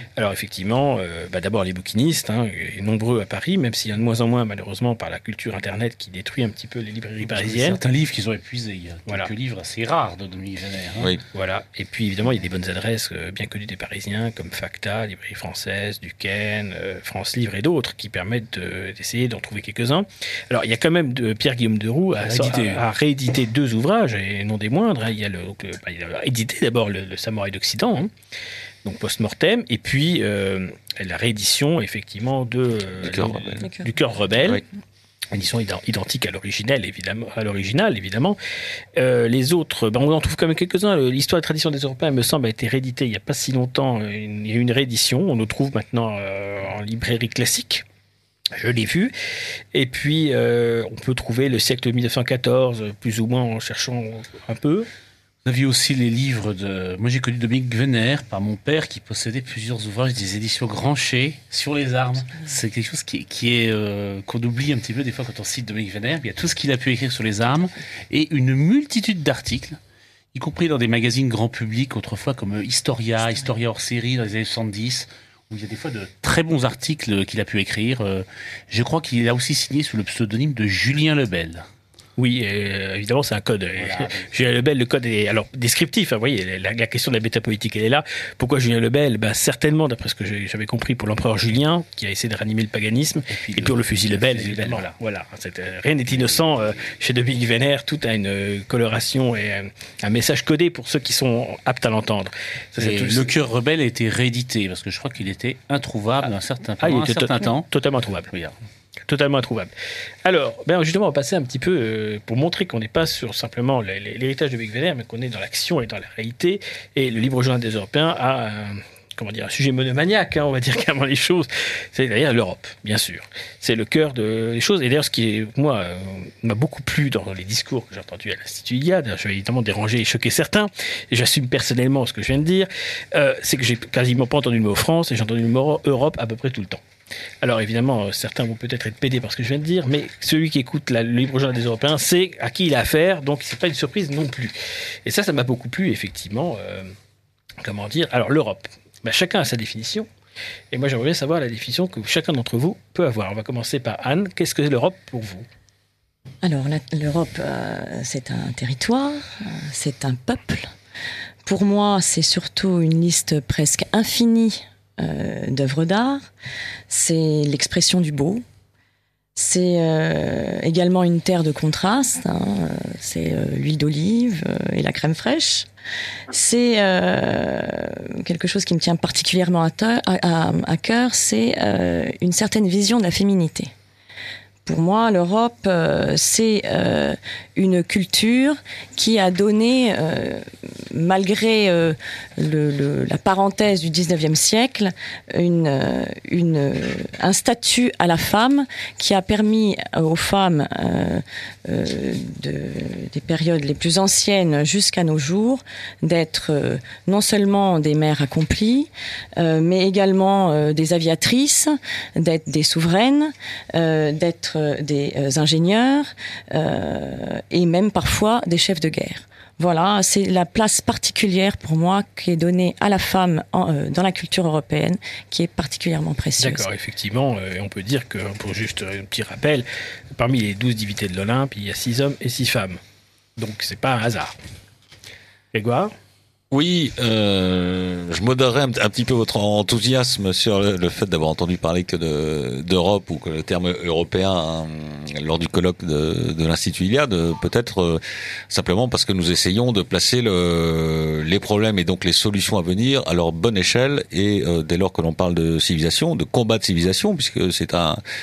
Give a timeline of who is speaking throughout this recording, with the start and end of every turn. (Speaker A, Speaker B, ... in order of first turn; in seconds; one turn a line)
Speaker A: 0.2-7.8
Speaker B: 7.2-11.1
Speaker A: 11.3-28.1
Speaker B: 22.1-22.8
Speaker A: 28.8-34.6
Speaker C: 33.0-33.6
Speaker A: 35.3-38.4
Speaker A: 39.0-47.8
Speaker A: 48.6-49.1
Speaker A: 49.7-54.9
Speaker B: 55.4-69.8
Speaker B: 70.3-81.7
Speaker A: 82.2-103.3
Speaker B: 83.8-84.3
Speaker B: 93.3-94.9
Speaker B: 96.1-96.8
Speaker B: 102.8-107.7
Speaker A: 106.8-108.3
Speaker B: 108.3-108.5
Speaker A: 109.1-109.7
Speaker A: 110.2-136.8
Speaker A: 137.4-146.9
Speaker A: 147.6-150.1
Speaker A: 150.7-155.4
Speaker D: 156.4-160.7
Speaker D: 161.4-166.3
Speaker D: 166.9-168.4
Speaker D: 169.3-175.7
Speaker D: 176.3-183.7
Speaker D: 184.7-226.6
Speaker A: 226.4-232.8
Speaker A: 233.4-234.3
Speaker A: 235.5-235.9
Speaker C: 236.5-258.0